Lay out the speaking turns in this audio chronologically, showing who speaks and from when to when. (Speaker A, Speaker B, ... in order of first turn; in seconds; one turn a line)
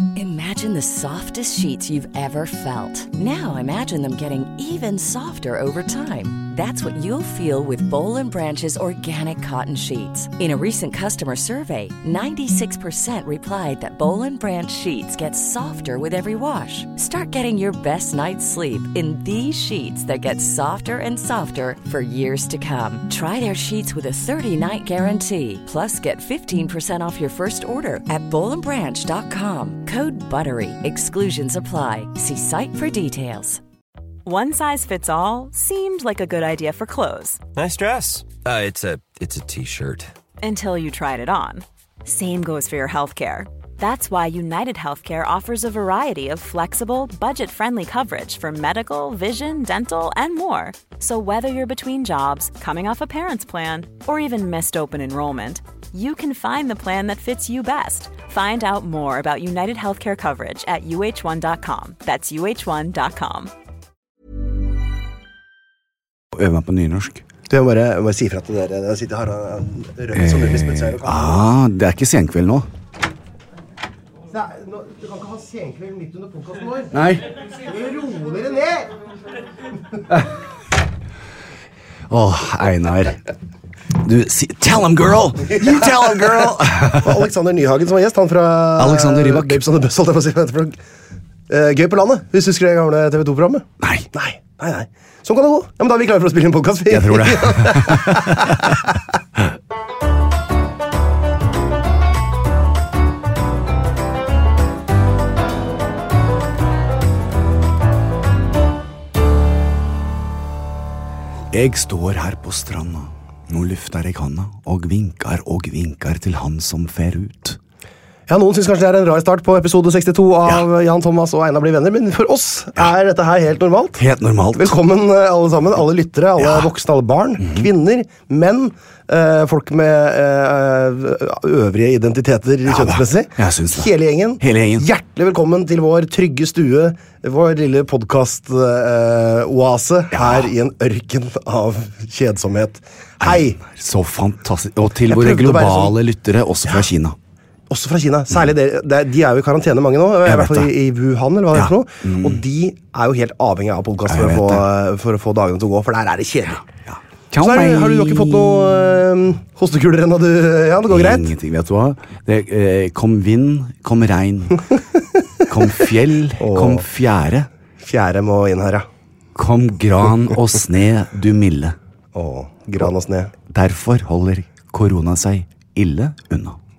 Speaker A: 0.1-33.6
Speaker B: 34.2-37.4
Speaker C: 37.5-40.1
Speaker B: 40.4-63.5
Speaker D: 66.3-67.2
Speaker E: 67.5-71.4
Speaker D: 70.1-72.7
Speaker E: 74.3-76.9
Speaker D: 76.9-77.3
Speaker E: 77.6-78.9
Speaker D: 82.1-83.2
Speaker D: 84.0-87.3
Speaker E: 85.5-90.8
Speaker D: 88.8-89.6
Speaker E: 91.5-98.7
Speaker D: 93.8-94.1
Speaker D: 96.9-98.8
Speaker D: 111.5-117.6
Speaker E: 118.3-124.0
Speaker D: 124.0-124.8
Speaker E: 124.5-143.6
Speaker D: 126.4-126.7
Speaker D: 127.4-127.7
Speaker D: 132.7-134.9
Speaker D: 140.1-140.5
Speaker D: 143.2-147.2
Speaker E: 145.1-145.9
Speaker E: 147.7-156.6
Speaker D: 150.2-150.7
Speaker D: 151.5-152.4
Speaker D: 154.1-154.6
Speaker D: 156.9-158.8
Speaker E: 157.4-161.3
Speaker D: 160.9-164.6
Speaker D: 165.5-167.5
Speaker E: 166.4-166.8
Speaker E: 167.8-168.9
Speaker D: 169.3-171.8
Speaker E: 172.1-173.3
Speaker D: 173.5-176.6